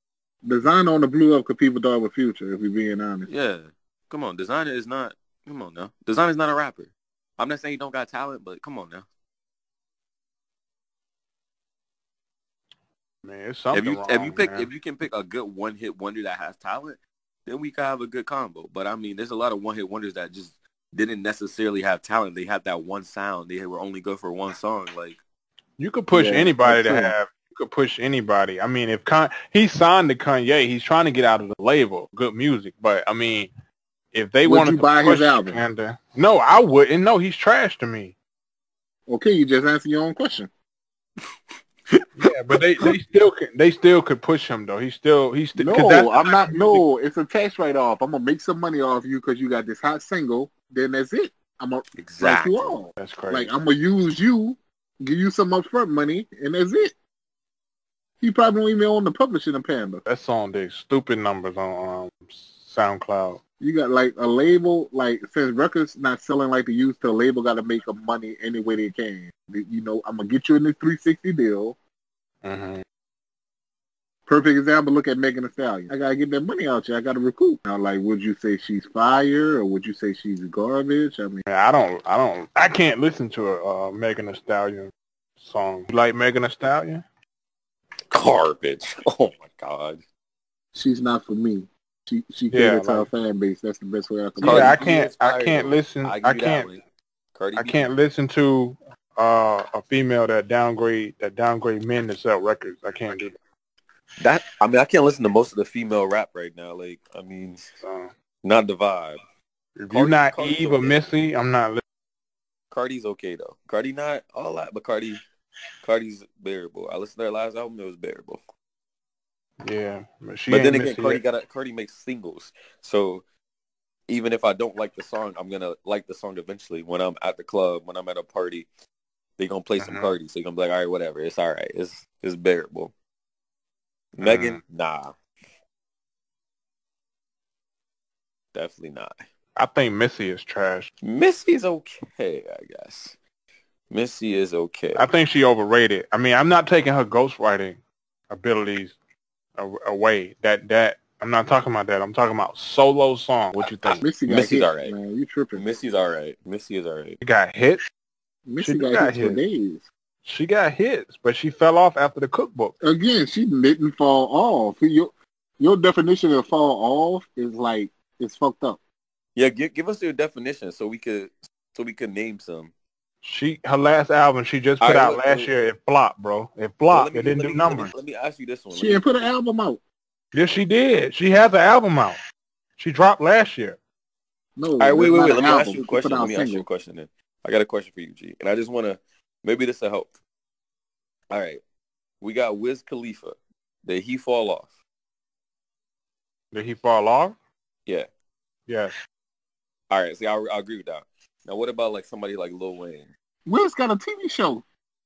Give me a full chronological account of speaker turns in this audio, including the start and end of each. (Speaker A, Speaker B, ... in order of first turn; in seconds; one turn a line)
Speaker A: 0.4-3.3
Speaker B: 3.3-9.0
Speaker C: 13.2-14.7
Speaker B: 13.7-25.2
Speaker C: 25.8-33.5
Speaker A: 26.1-27.1
Speaker C: 34.1-38.1
Speaker A: 34.5-35.6
Speaker A: 39.1-40.5
Speaker C: 42.2-46.8
Speaker A: 45.5-56.9
Speaker B: 52.0-52.8
Speaker C: 53.0-53.5
Speaker A: 58.2-60.0
Speaker C: 60.0-63.4
Speaker A: 63.6-71.8
Speaker C: 72.4-72.8
Speaker A: 74.3-81.4
Speaker C: 81.5-87.0
Speaker B: 88.1-90.0
Speaker A: 90.7-94.8
Speaker C: 92.5-93.1
Speaker B: 94.4-96.8
Speaker C: 94.4-96.7
Speaker B: 97.3-97.8
Speaker C: 97.6-103.3
Speaker B: 104.2-107.6
Speaker C: 107.8-108.1
Speaker B: 108.4-109.2
Speaker C: 109.8-111.8
Speaker B: 109.9-111.0
Speaker B: 112.7-115.2
Speaker B: 115.8-118.4
Speaker C: 119.6-121.2
Speaker B: 120.5-123.2
Speaker B: 124.1-128.7
Speaker B: 129.4-132.9
Speaker C: 129.8-130.1
Speaker C: 134.2-134.6
Speaker B: 134.2-135.2
Speaker B: 138.5-139.2
Speaker C: 139.6-140.9
Speaker B: 141.0-143.2
Speaker B: 143.9-145.0
Speaker C: 144.9-147.8
Speaker C: 148.3-148.9
Speaker C: 149.6-154.0
Speaker B: 153.6-154.9
Speaker A: 154.0-155.6
Speaker B: 155.5-157.2
Speaker C: 157.2-157.8
Speaker A: 158.5-159.8
Speaker C: 158.6-159.4
Speaker C: 160.2-162.7
Speaker A: 162.8-168.8
Speaker B: 169.3-172.7
Speaker C: 173.2-177.9
Speaker B: 174.8-175.5
Speaker B: 176.9-179.0
Speaker A: 178.7-179.8
Speaker C: 180.3-182.2
Speaker C: 182.8-183.8
Speaker A: 184.6-186.6
Speaker B: 184.8-190.1
Speaker B: 191.3-191.6
Speaker B: 192.2-194.7
Speaker C: 196.5-197.3
Speaker C: 198.7-198.9
Speaker B: 199.9-203.1
Speaker A: 203.4-204.6